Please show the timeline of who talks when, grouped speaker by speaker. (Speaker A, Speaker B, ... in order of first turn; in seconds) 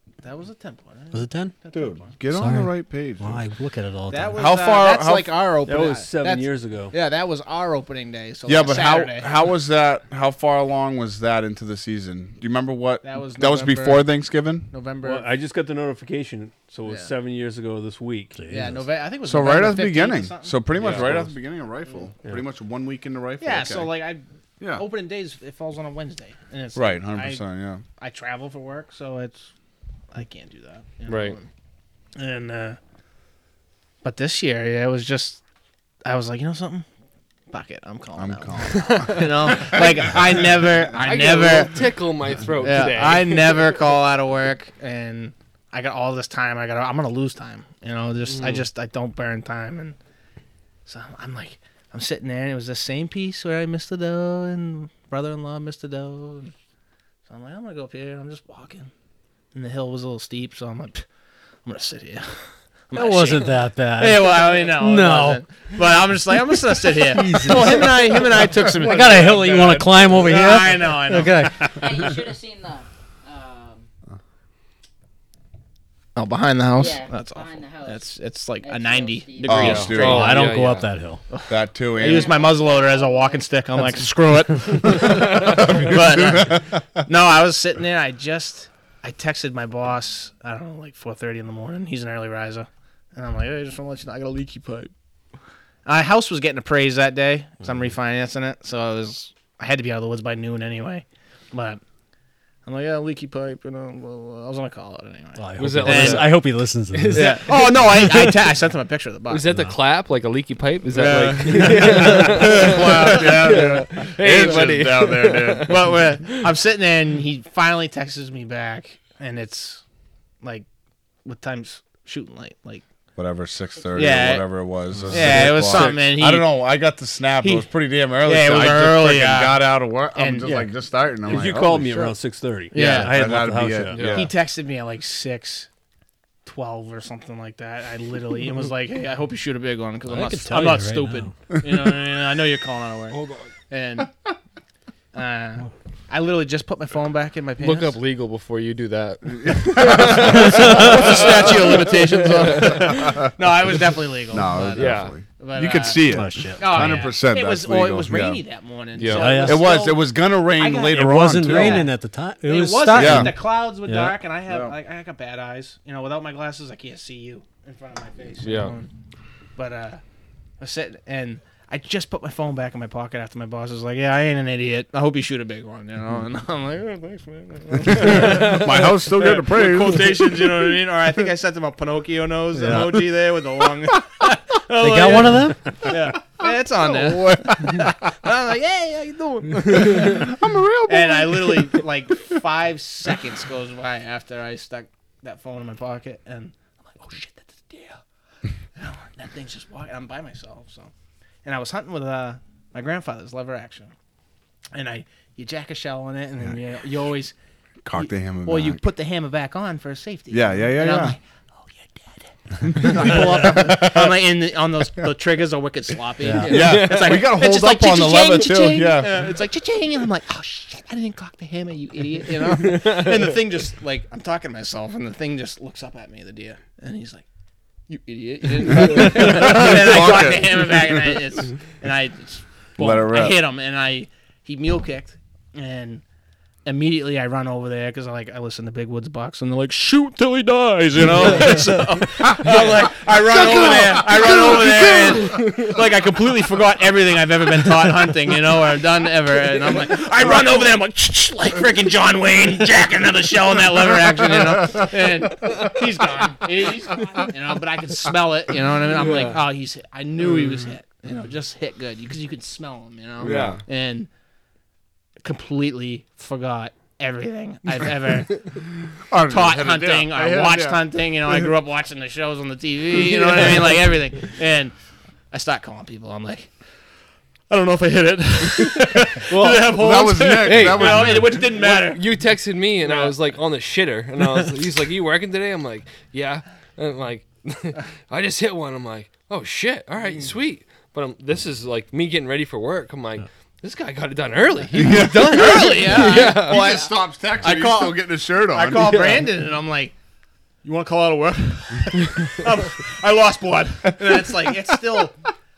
Speaker A: 0.2-2.1, 4.1-9.5, 13.0-14.1, 14.7-15.3, 16.9-17.1, 18.5-21.3, 23.4-27.4, 28.0-29.5, 30.1-31.5, 32.2-32.8, 34.0-35.4, 36.0-36.9, 37.5-41.9, 42.6-50.0, 50.9-56.5, 57.3-58.9, 59.5-61.0, 61.6-69.6, 70.1-71.7, 76.2-80.3, 81.3-94.9, 95.9-101.8, 102.7-106.3, 107.1-109.4, 115.7-119.8, 120.4-120.7, 121.2-122.8, 123.9-124.5, 125.1-126.5, 127.4-127.7, 128.2-129.6, 130.1-130.6, 132.7-133.1, 134.0-135.7, 136.4-143.2, 143.7-144.1, 145.1-148.0, 150.0-168.9, 169.6-170.0, 170.6-190.4, 190.9-198.0, 198.8-200.9, 201.4-203.9, 204.7-207.3, 207.9-227.2, 227.9-236.0, 236.7-264.1, 265.2-268.5, 269.3-274.7, 275.3-276.5, 277.5-282.2, 282.8-283.1, 294.8-299.9, 300.6-305.2
Speaker B: 1.1-1.5, 2.3-4.4, 18.4-18.8, 62.9-65.4, 66.5-71.8, 79.9-81.2, 105.4-108.2, 109.5-109.8, 140.1-141.3, 156.1-157.1, 159.1-159.7, 160.9-164.2, 184.8-185.6, 216.2-216.6
Speaker C: 1.7-3.4, 4.3-5.3, 8.5-14.7, 19.2-23.9, 24.6-24.9, 26.8-27.8, 38.2-40.9, 68.4-70.2, 79.4-80.4, 81.5-82.3, 84.8-86.8, 110.9-115.8, 123.2-132.2, 132.7-134.3, 141.6-142.1, 149.2-158.4, 159.3-161.9, 162.9-163.4, 164.5-164.8, 177.8-180.8, 182.6-184.0, 185.8-188.1, 189.7-191.9, 207.8-208.8, 210.3-211.2, 212.6-214.3, 216.4-219.4, 228.6-231.3, 232.8-233.4, 242.1-242.6, 243.2-245.3, 254.1-255.6, 263.2-263.6, 268.9-271.5, 279.5-281.5, 294.7-299.2, 304.0-304.4
Speaker D: 5.7-7.0, 15.0-18.4, 125.2-126.0, 131.2-134.1
Speaker E: 20.8-21.2, 31.1-31.4, 40.9-43.8, 48.3-48.7, 79.6-80.9, 84.9-85.8, 105.6-106.4, 106.9-107.7, 109.3-116.5, 133.9-134.3, 143.1-143.5, 147.6-153.1, 154.8-155.2, 159.0-159.4, 168.4-168.8, 178.1-178.7, 216.4-217.3, 222.4-223.4, 242.4-245.8, 258.8-259.4, 260.2-260.7, 263.2-263.6, 267.7-268.4, 272.9-273.9, 279.3-279.8, 280.4-296.7, 298.8-299.3
Speaker F: 71.6-73.9, 76.8-78.1, 78.6-79.9, 82.0-83.5